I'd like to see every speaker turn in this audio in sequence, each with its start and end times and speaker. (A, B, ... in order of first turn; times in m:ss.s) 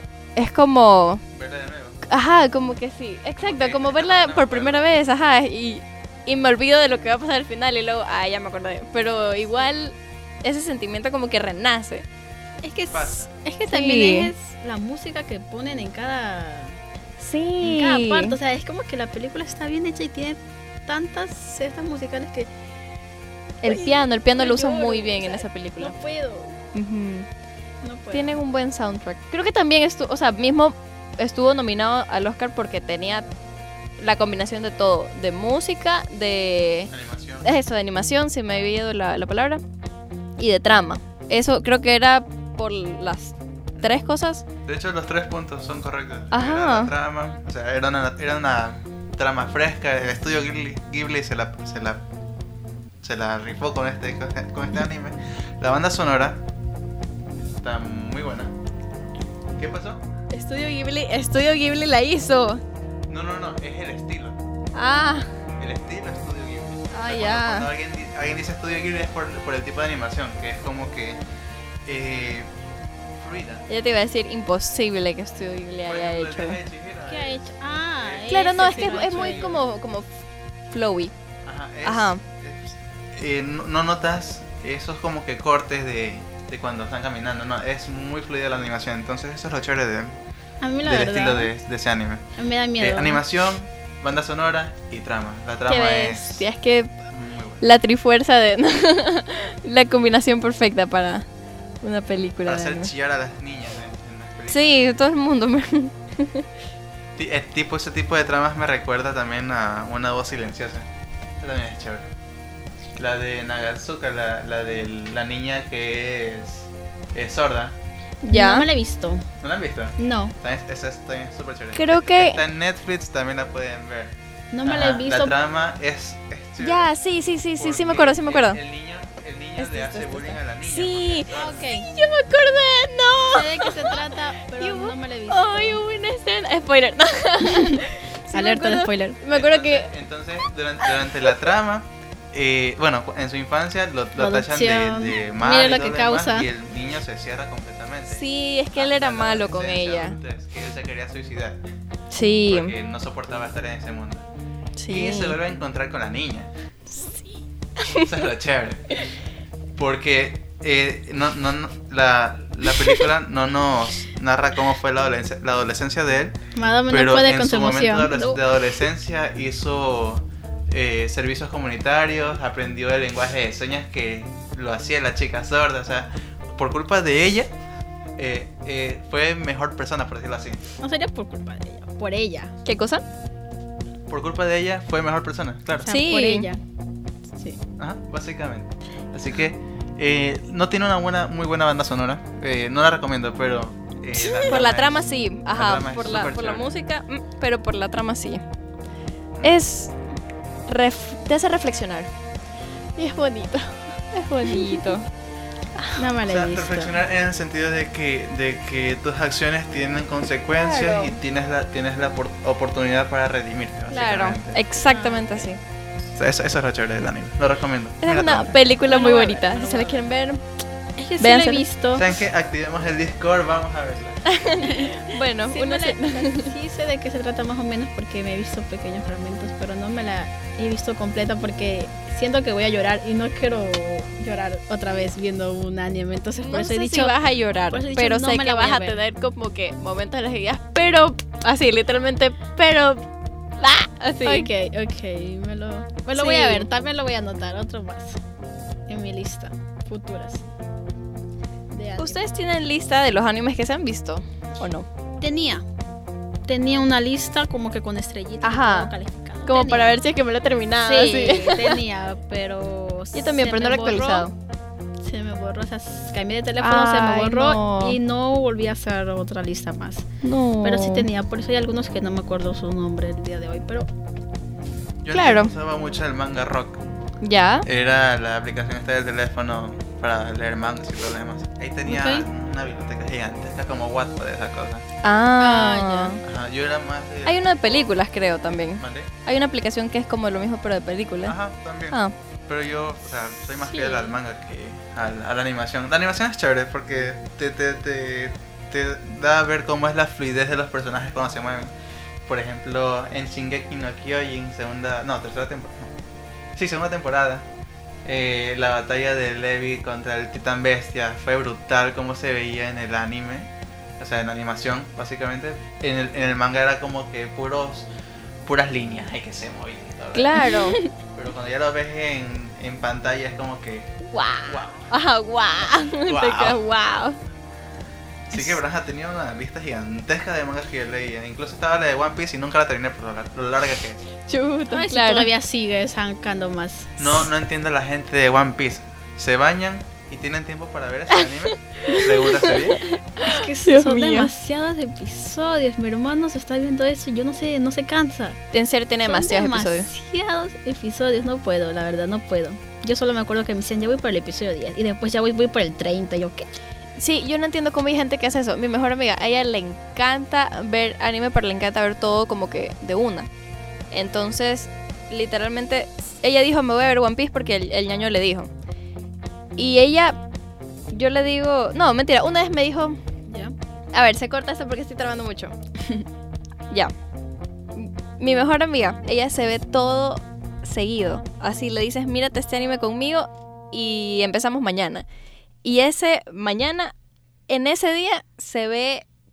0:00.4-0:01.2 A
0:01.3-0:02.0 B
0:02.0-0:12.0 A
0:03.4-0:04.9 B
0:12.6-0:16.8 C
0:12.9-0:13.3 B
0:13.7-0:14.3 A
0:17.2-0:18.4 A
0:17.6-0:22.5 C
0:23.6-0:26.0 A
0:23.6-0:26.6 C
0:26.7-0:27.3 A
0:27.8-0:28.4 C
0:28.1-0:33.2 A
0:34.0-0:36.9 A
0:36.9-0:37.5 B
0:37.4-0:39.6 A
0:40.4-0:44.4 A
0:44.6-0:52.0 B
0:46.3-0:46.9 A
0:53.0-0:56.4 B
0:57.4-0:58.5 B
0:59.6-1:00.0 B
1:00.3-1:02.6 A
1:03.1-1:04.4 B
1:04.7-1:05.3 A
1:05.6-1:11.2 B
1:06.9-1:07.7 A
1:11.8-1:12.5 B
1:13.2-1:13.6 B
1:13.7-1:16.6 A
1:15.8-1:19.6 B
1:17.1-1:19.4 C
1:18.3-1:20.1 A
1:20.7-1:21.1 A
1:21.4-1:30.1 B
1:21.8-1:22.2 A
1:30.6-1:31.5 C
1:30.8-1:32.2 B
1:32.4-1:33.2 C
1:32.8-1:36.5 B
1:35.7-1:36.9 A
1:37.1-1:37.6 B
1:37.6-1:41.3 A
1:41.8-1:42.9 A
1:42.4-1:44.9 B
1:44.5-1:46.5 A
1:47.2-1:50.8 B
1:51.4-1:52.1 B
1:53.0-1:57.8 B
1:58.2-1:58.7 A
1:58.3-1:59.2 C
1:59.4-2:06.9 B
2:00.0-2:00.3 C
2:01.7-2:02.4 A
2:04.5-2:05.3 C
2:06.6-2:08.6 A
2:07.6-2:11.6 B
2:09.6-2:19.9 A
2:11.3-2:11.9 C
2:13.3-2:15.8 C
2:17.4-2:19.2 C
2:19.3-2:31.6 B
2:20.8-2:21.3 A
2:24.2-2:26.5 C
2:28.1-2:30.2 A
2:32.1-2:32.7 A
2:32.4-2:34.2 B
2:34.8-2:35.4 A
2:34.9-2:36.5 B
2:36.9-2:37.3 A
2:37.8-2:38.2 A
2:38.0-2:39.0 B
2:39.8-2:46.4 B
2:42.7-2:43.0 A
2:46.6-2:48.4 C
2:46.9-2:57.5 B
2:58.2-3:00.6 B
3:00.8-3:02.5 C
3:02.6-3:03.0 A
3:04.1-3:05.9 B
3:05.8-3:06.6 C
3:05.9-3:06.5 A
3:07.8-3:16.8 B
3:14.2-3:18.4 A
3:19.4-3:19.6 B
3:19.4-3:19.9 A
3:20.7-3:22.1 A
3:23.0-3:25.1 A
3:26.0-3:27.0 C
3:26.2-3:34.6 B
3:30.5-3:31.2 A
3:33.9-3:35.6 A
3:34.8-3:35.5 C
3:36.1-3:38.6 B
3:38.0-3:40.4 A
3:38.8-3:40.1 C
3:41.0-3:42.2 C
3:41.2-3:41.6 A
3:41.9-3:44.3 B
3:44.2-3:46.5 A
3:44.6-3:57.1 C
3:56.4-4:03.0 A
3:57.7-3:59.0 C
4:03.6-4:04.5 A
4:04.2-4:08.2 C
4:06.1-4:06.7 A
4:08.9-4:10.4 C
4:11.7-4:12.2 C
4:12.0-4:14.9 A
4:15.2-4:15.6 C
4:16.5-4:20.0 C
4:18.4-4:18.9 A
4:19.4-4:21.8 A
4:20.8-4:24.3 C
4:23.1-4:24.3 A
4:25.0-4:30.1 C
4:26.6-4:28.0 A
4:30.2-4:31.1 A
4:30.6-4:33.9 C
4:35.0-4:36.8 B
4:35.1-4:35.5 A
4:37.2-4:37.6 A
4:37.6-4:44.8 B
4:41.8-4:42.3 C
4:45.0-4:46.2 A
4:45.4-4:46.2 C
4:46.2-4:48.0 B
4:47.2-4:51.4 A
4:48.8-4:49.1 B
4:51.2-5:01.7 B
4:53.6-4:54.2 C
5:02.2-5:05.9 B
5:06.6-5:07.4 B
5:08.0-5:13.5 B
5:14.0-5:17.9 B
5:18.4-5:20.6 B
5:20.1-5:20.8 A
5:20.4-5:20.8 C
5:21.1-5:24.9 B
5:24.1-5:27.2 A
5:26.0-5:26.6 B
5:28.3-5:34.0 B
5:34.2-5:35.3 A
5:34.7-5:37.2 C
5:37.0-5:42.9 B
5:41.1-5:44.3 A
5:43.2-5:48.4 C
5:48.5-5:49.9 A
5:49.0-5:56.5 C
5:57.0-6:03.3 A
6:03.9-6:08.5 A
6:09.6-6:10.2 A
6:10.9-6:13.0 A
6:13.3-6:13.5 C
6:13.9-6:15.6 A
6:17.7-6:25.0 A
6:25.6-6:26.9 A
6:27.5-6:29.0 A